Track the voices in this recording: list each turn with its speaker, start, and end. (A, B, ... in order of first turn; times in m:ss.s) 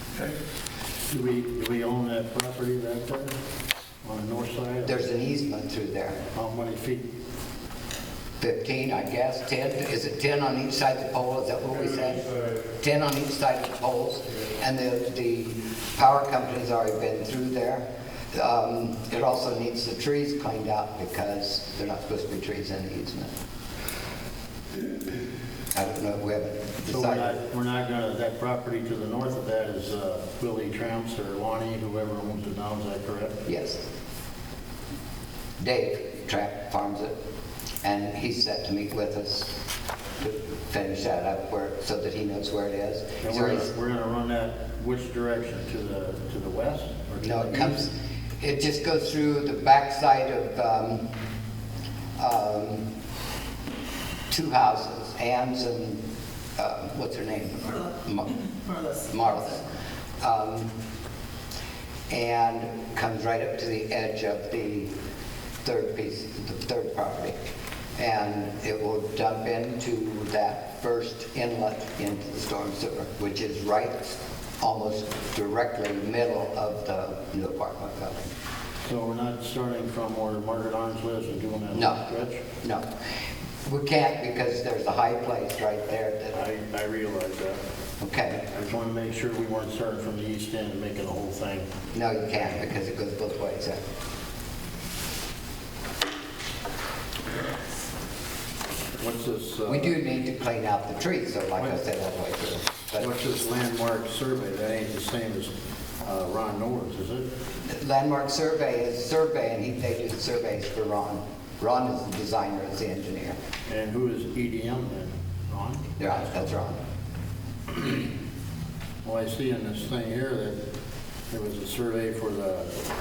0:01.1-0:03.3 A
0:04.0-0:05.0 A
0:04.8-0:06.2 B
0:06.3-0:07.0 A
0:08.4-0:23.3 B
0:25.7-0:27.3 B
0:26.8-0:33.4 A
0:33.4-0:33.8 B
0:35.6-0:37.2 B
0:37.8-0:39.6 B
0:40.2-0:43.7 B
0:43.2-0:47.9 A
0:47.2-0:51.1 B
0:52.2-0:52.9 B
0:54.3-0:56.0 B
0:56.6-0:58.4 B
0:58.9-0:59.7 B
1:00.2-1:00.8 B
1:02.1-1:04.9 B
1:05.6-1:07.4 B
1:08.0-1:18.3 B
1:18.8-1:22.4 A
1:21.7-1:22.0 B
1:23.6-1:26.4 B
1:26.3-1:27.6 A
1:28.0-1:28.5 B
1:28.5-1:31.7 A
1:31.9-1:33.8 B
1:39.0-1:39.9 A
1:39.7-1:43.1 B
1:43.0-1:47.3 A
1:47.6-1:53.4 B
1:53.7-1:55.8 A
1:56.0-1:56.8 B
1:59.0-2:00.6 A
2:01.3-2:02.7 A